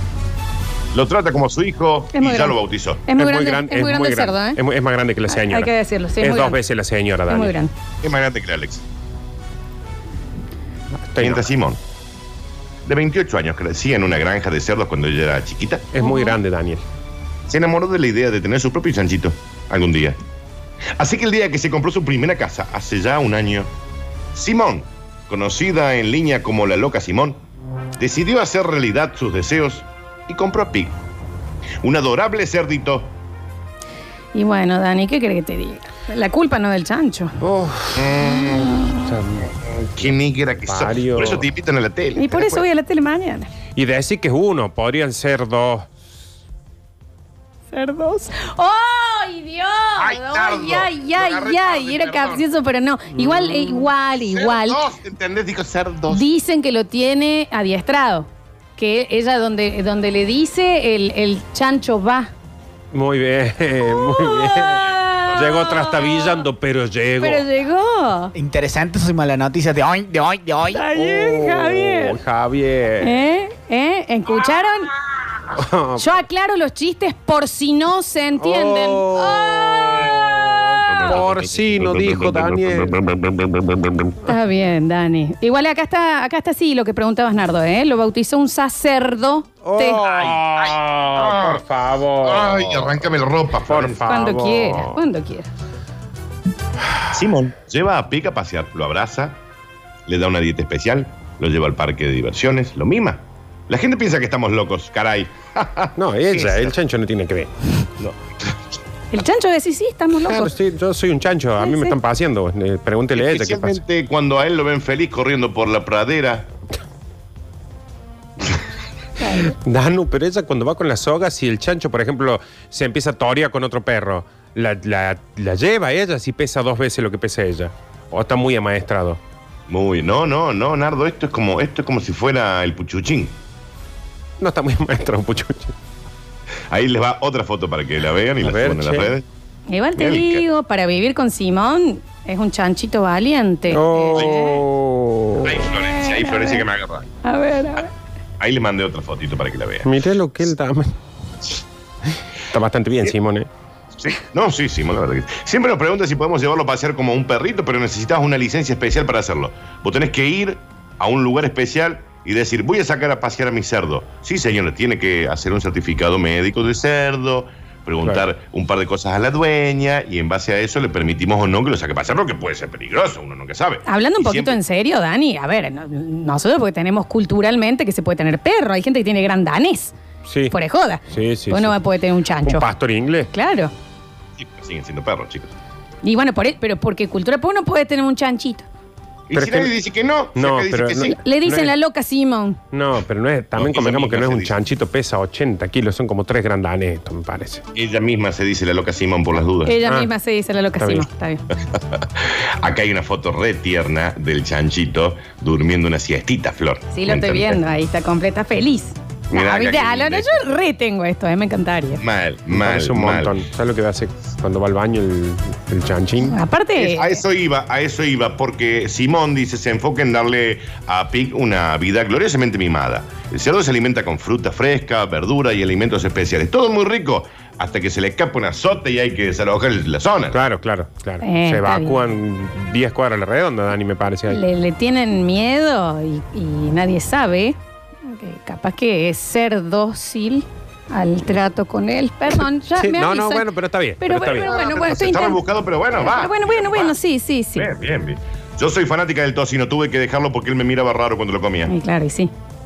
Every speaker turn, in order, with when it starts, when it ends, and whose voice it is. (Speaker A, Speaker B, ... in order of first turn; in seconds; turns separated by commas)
Speaker A: 0.9-3.0, Speaker B: 2.1-4.6, Speaker C: 3.1-7.5, Speaker B: 5.3-6.6, Speaker B: 7.3-7.7, Speaker A: 8.0-8.8, Speaker C: 11.1-11.5, Speaker A: 11.2-11.8, Speaker A: 12.9-15.9, Speaker C: 15.9-16.8, Speaker B: 16.0-16.4, Speaker A: 17.5-20.2, Speaker A: 21.0-23.7, Speaker A: 24.3-27.4, Speaker A: 28.0-31.0, Speaker A: 31.8-33.1, Speaker B: 34.3-37.4, Speaker C: 37.4-38.2, Speaker A: 38.0-38.7, Speaker C: 38.7-40.1, Speaker A: 40.0-42.6, Speaker C: 40.7-41.5, Speaker B: 42.2-43.5, Speaker C: 43.7-45.9, Speaker B: 47.7-54.8, Speaker A: 50.0-52.5, Speaker A: 53.2-56.3, Speaker B: 56.1-62.3, Speaker C: 62.9-67.5, Speaker B: 63.9-66.3, Speaker A: 65.0-65.6, Speaker B: 67.2-68.3, Speaker D: 68.3-70.8, Speaker B: 70.8-72.2, Speaker C: 70.8-73.2, Speaker B: 73.0-74.9, Speaker C: 75.6-76.1, Speaker B: 76.0-80.1, Speaker C: 78.4-84.1, Speaker A: 81.5-82.3, Speaker B: 84.2-90.0, Speaker C: 89.6-93.1, Speaker A: 90.0-91.6, Speaker A: 92.2-94.0, Speaker C: 93.7-95.0, Speaker B: 94.1-95.5, Speaker A: 97.1-99.4, Speaker A: 100.1-106.8, Speaker C: 106.0-107.5, Speaker A: 108.0-108.5, Speaker B: 109.1-110.5, Speaker C: 110.2-113.8, Speaker B: 111.6-112.0, Speaker A: 113.2-116.5, Speaker B: 119.2-119.5, Speaker C: 119.6-129.2, Speaker A: 129.7-133.4, Speaker C: 134.4-135.7, Speaker A: 136.7-139.2, Speaker C: 138.4-139.2, Speaker B: 139.7-144.6, Speaker A: 140.0-140.4, Speaker C: 143.7-145.6, Speaker A: 144.2-144.4, Speaker A: 145.4-147.1, Speaker B: 145.8-146.6, Speaker B: 147.2-147.9, Speaker A: 148.4-149.9, Speaker C: 149.8-150.9, Speaker C: 152.5-153.5, Speaker A: 154.0-174.6, Speaker B: 173.9-179.9, Speaker C: 180.2-180.5, Speaker B: 180.5-182.7, Speaker C: 181.1-181.8, Speaker C: 182.4-183.3, Speaker B: 183.3-183.7, Speaker A: 184.4-185.5, Speaker B: 186.0-188.7, Speaker A: 189.3-191.2, Speaker C: 189.3-189.7, Speaker C: 190.3-191.8, Speaker B: 191.2-192.6, Speaker C: 192.7-197.6, Speaker A: 193.6-194.6, Speaker A: 197.8-199.8, Speaker B: 199.7-201.4, Speaker C: 199.8-200.1, Speaker C: 200.8-201.1, Speaker A: 201.7-207.6, Speaker B: 206.9-212.0, Speaker A: 209.3-210.4, Speaker A: 212.0-213.4, Speaker C: 212.5-216.4, Speaker B: 216.2-217.2, Speaker A: 216.8-230.4, Speaker C: 230.3-234.4, Speaker B: 231.2-232.0, Speaker B: 234.3-243.5, Speaker C: 242.8-244.6, Speaker B: 244.0-245.4, Speaker A: 244.5-247.0, Speaker B: 246.0-247.7, Speaker A: 247.6-251.7, Speaker B: 251.7-252.3